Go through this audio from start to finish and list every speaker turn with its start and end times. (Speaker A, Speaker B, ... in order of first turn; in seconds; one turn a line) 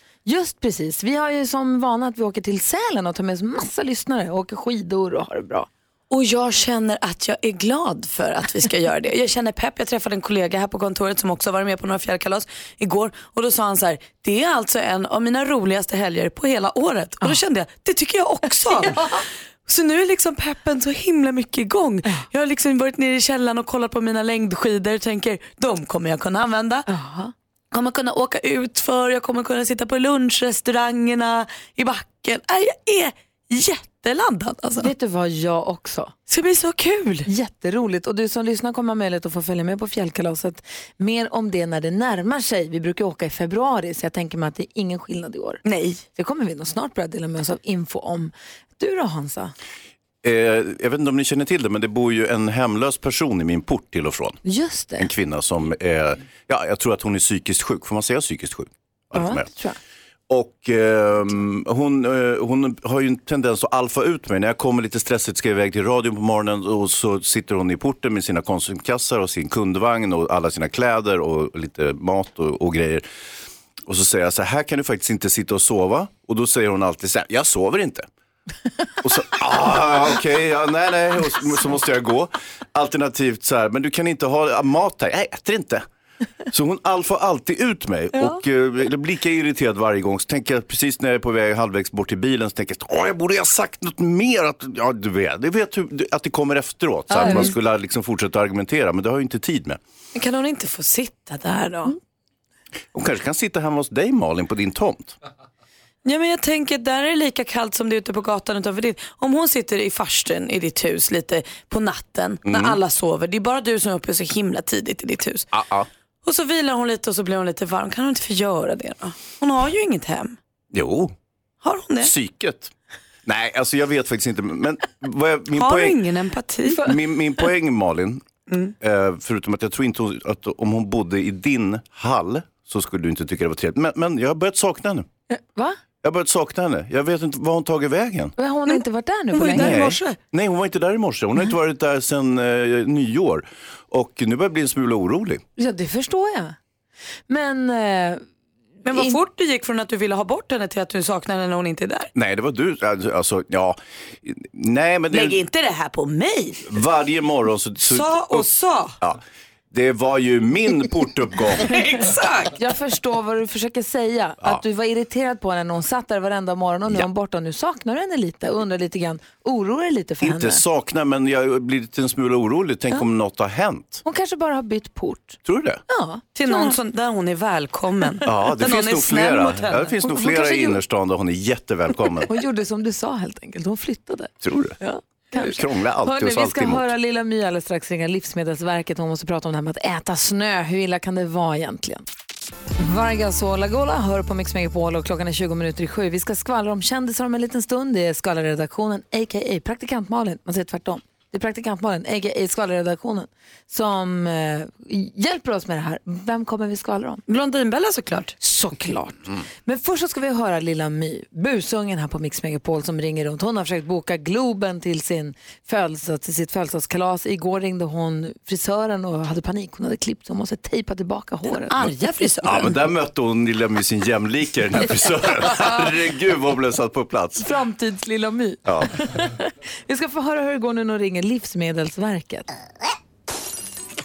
Speaker A: 0.2-5.7
Speaker B: 6.1-26.9
Speaker A: 26.9-27.3
Speaker B: 27.7-34.9
Speaker A: 34.8-36.1
Speaker B: 36.3-37.3
Speaker A: 37.3-49.5
Speaker B: 45.6-46.0
Speaker C: 50.2-54.4
Speaker A: 54.5-55.1
Speaker C: 55.0-59.5
Speaker A: 59.1-59.8
Speaker C: 60.3-73.0
Speaker C: 73.9-78.1
Speaker C: 79.0-85.8
Speaker C: 86.5-99.8
Speaker A: 97.1-97.5
Speaker B: 97.2-97.5
Speaker B: 100.2-102.0
Speaker C: 102.9-105.2
Speaker B: 106.0-115.5
Speaker C: 112.5-112.8
Speaker C: 115.5-115.9
Speaker B: 116.2-120.4
Speaker C: 120.7-121.1
Speaker B: 121.6-122.1
Speaker C: 122.0-122.7
Speaker C: 123.2-126.0
Speaker B: 125.5-126.9
Speaker C: 126.8-128.2
Speaker C: 128.8-135.1
Speaker A: 135.3-135.8
Speaker C: 136.0-138.3
Speaker A: 138.4-139.9
Speaker B: 138.7-140.2
Speaker C: 139.5-145.4
Speaker A: 145.6-146.6
Speaker A: 147.3-148.2
Speaker B: 148.8-152.1
Speaker A: 148.9-149.2
Speaker C: 152.2-155.4
Speaker B: 155.1-156.7
Speaker C: 156.6-158.5
Speaker B: 157.8-159.0
Speaker C: 159.0-161.8
Speaker B: 161.7-162.5
Speaker A: 162.6-170.6
Speaker C: 170.2-174.0
Speaker A: 174.1-176.8
Speaker C: 175.4-175.8
Speaker B: 176.3-180.0
Speaker C: 178.2-182.3
Speaker A: 180.0-180.8
Speaker A: 182.3-192.1
Speaker C: 184.4-184.8
Speaker C: 185.3-186.9
Speaker A: 192.8-207.2
Speaker B: 207.3-208.4
Speaker A: 208.4-221.8
Speaker B: 221.6-222.8
Speaker C: 222.4-227.5
Speaker A: 227.4-232.5
Speaker C: 228.7-228.9